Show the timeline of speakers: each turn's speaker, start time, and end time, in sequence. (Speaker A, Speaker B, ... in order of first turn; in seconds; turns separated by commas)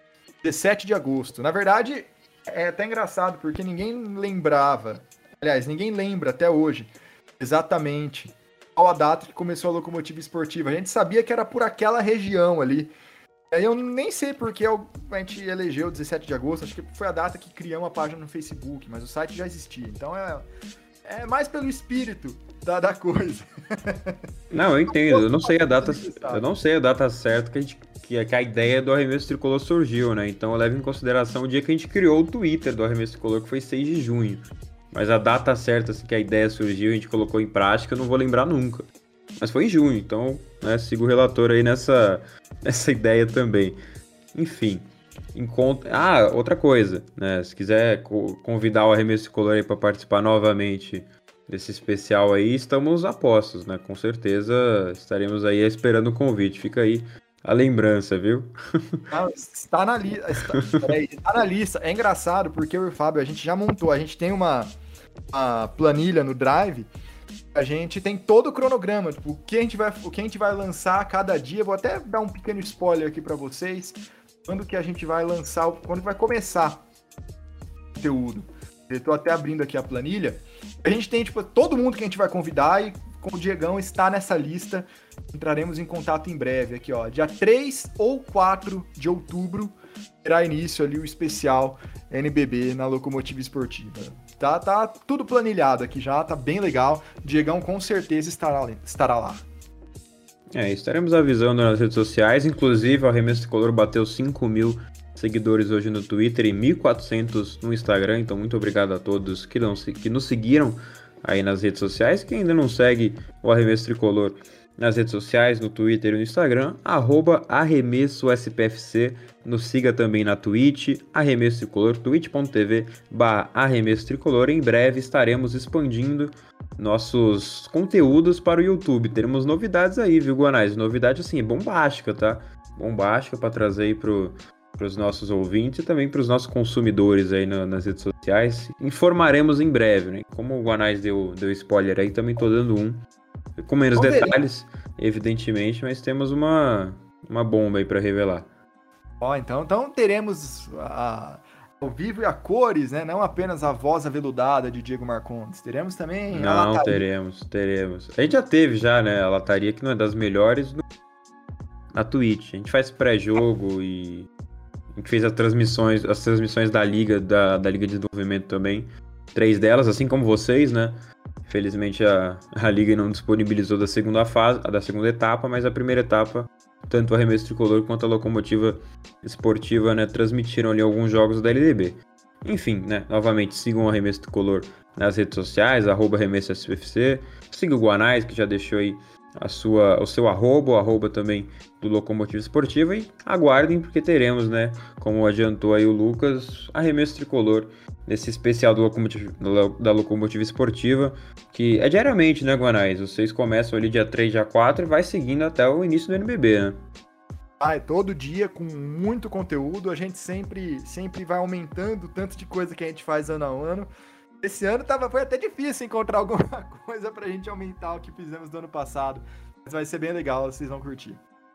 Speaker A: 0.4-12.9, Speaker A: 13.5-20.5, Speaker A: 21.1-24.1, Speaker B: 24.5-38.9, Speaker A: 24.9-26.4, Speaker B: 39.4-43.8, Speaker B: 44.3-59.0, Speaker A: 59.1-64.7, Speaker B: 60.4-60.9, Speaker A: 65.3-66.9, Speaker A: 67.5-76.8, Speaker A: 78.0-99.4, Speaker B: 100.5-143.0, Speaker B: 143.6-148.5, Speaker A: 144.0-144.4, Speaker A: 149.2-157.0, Speaker B: 156.3-160.8, Speaker B: 161.9-164.3, Speaker B: 164.9-206.8, Speaker A: 207.6-213.9, Speaker A: 214.4-221.2